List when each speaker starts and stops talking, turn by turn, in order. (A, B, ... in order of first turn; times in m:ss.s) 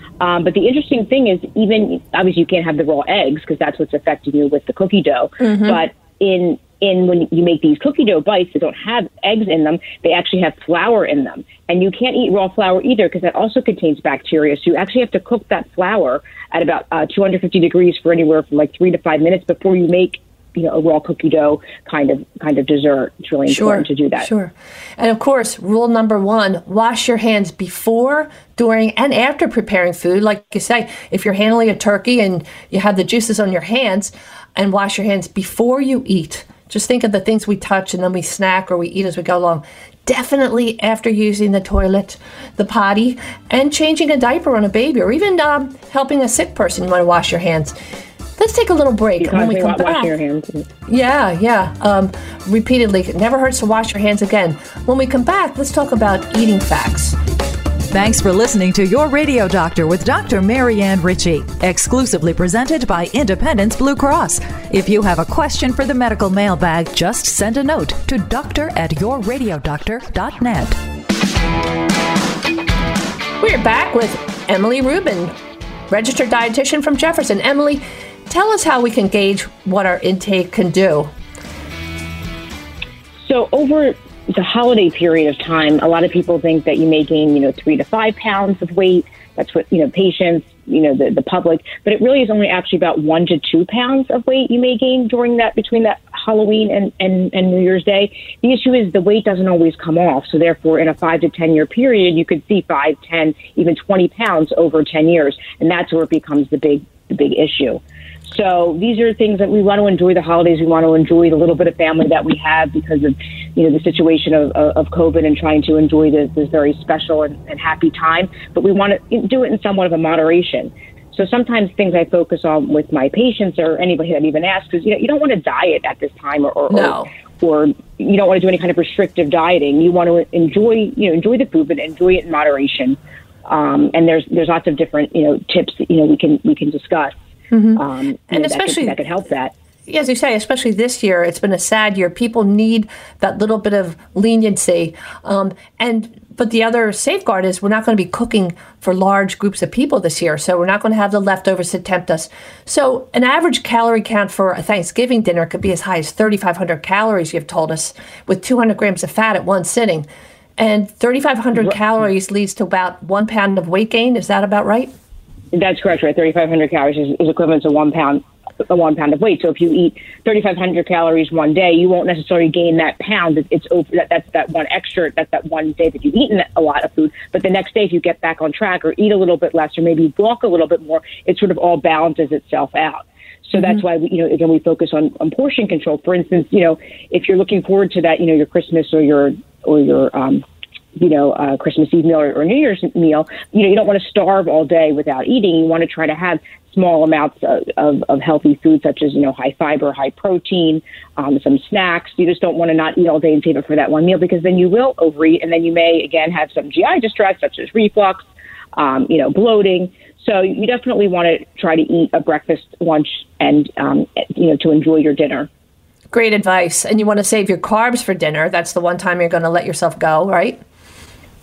0:00.2-0:24.3 A
0:05.4-0:05.8 B
0:23.5-0:47.8 B
0:48.4-0:50.1 B
0:49.2-0:50.7 A
0:50.9-0:57.2 B
0:57.9-1:10.8 C
1:13.4-1:15.4 B
1:15.9-1:21.1 B
1:23.3-2:17.2 A
2:06.7-2:07.1 B
2:17.5-2:19.0 B
2:17.8-2:19.5 A
2:19.9-2:44.9 B
2:45.5-3:10.4 A
3:11.0-3:35.5 A
3:36.1-3:40.6 B